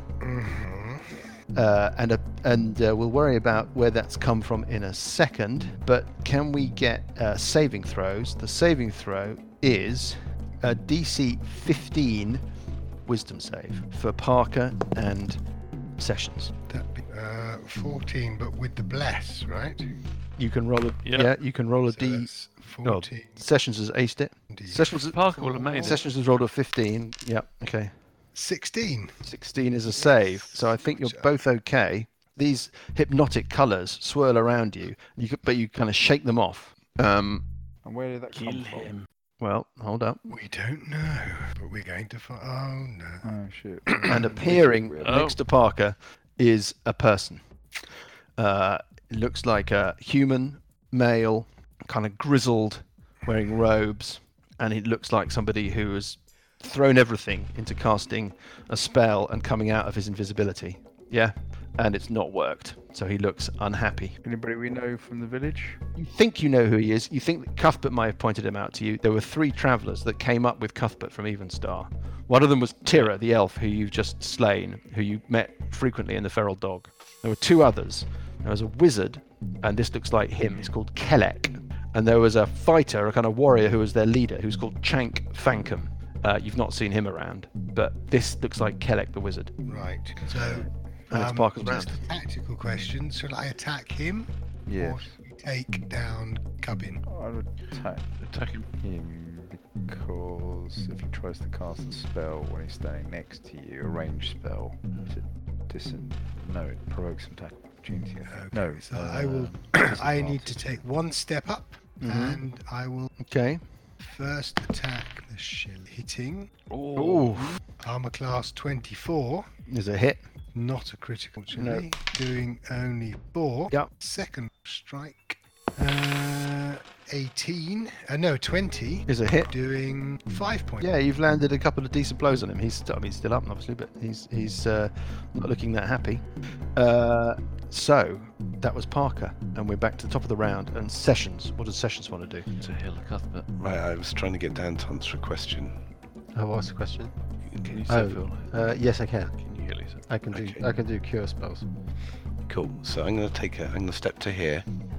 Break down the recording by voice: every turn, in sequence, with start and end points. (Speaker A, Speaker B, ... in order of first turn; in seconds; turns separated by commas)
Speaker A: 0.2-1.3, Speaker B: 1.5-12.4, Speaker B: 13.1-15.4, Speaker B: 16.0-16.5, Speaker A: 16.7-19.9, Speaker B: 20.4-22.3, Speaker C: 21.0-21.3, Speaker A: 21.9-23.4, Speaker B: 22.8-28.0, Speaker A: 24.5-26.0, Speaker C: 25.1-26.0, Speaker A: 28.4-29.2, Speaker B: 29.2-37.4, Speaker A: 29.9-31.3, Speaker D: 37.8-39.0, Speaker C: 38.3-39.1, Speaker B: 39.4-40.3, Speaker A: 40.3-43.3, Speaker D: 43.2-45.2, Speaker A: 43.9-44.3, Speaker B: 44.1-47.5, Speaker C: 45.0-45.4, Speaker B: 48.4-64.2, Speaker D: 64.2-65.8, Speaker B: 66.0-89.9, Speaker A: 89.7-97.0, Speaker B: 91.1-92.0, Speaker D: 94.7-95.2, Speaker D: 97.1-98.2, Speaker C: 98.2-98.7, Speaker D: 98.8-110.8, Speaker A: 108.2-113.1, Speaker B: 112.0-112.4, Speaker B: 113.2-113.7, Speaker A: 114.0-116.5, Speaker C: 116.7-117.6, Speaker B: 117.0-117.6, Speaker A: 117.8-119.5, Speaker B: 119.7-120.3, Speaker A: 120.5-130.9, Speaker B: 121.5-121.8, Speaker B: 129.1-129.5, Speaker B: 130.8-142.5, Speaker C: 142.6-143.6, Speaker E: 143.6-145.8, Speaker F: 146.3-147.1, Speaker E: 147.5-147.8, Speaker C: 147.6-150.1, Speaker F: 147.9-149.3, Speaker F: 150.1-151.7, Speaker E: 150.3-150.6, Speaker E: 152.5-154.7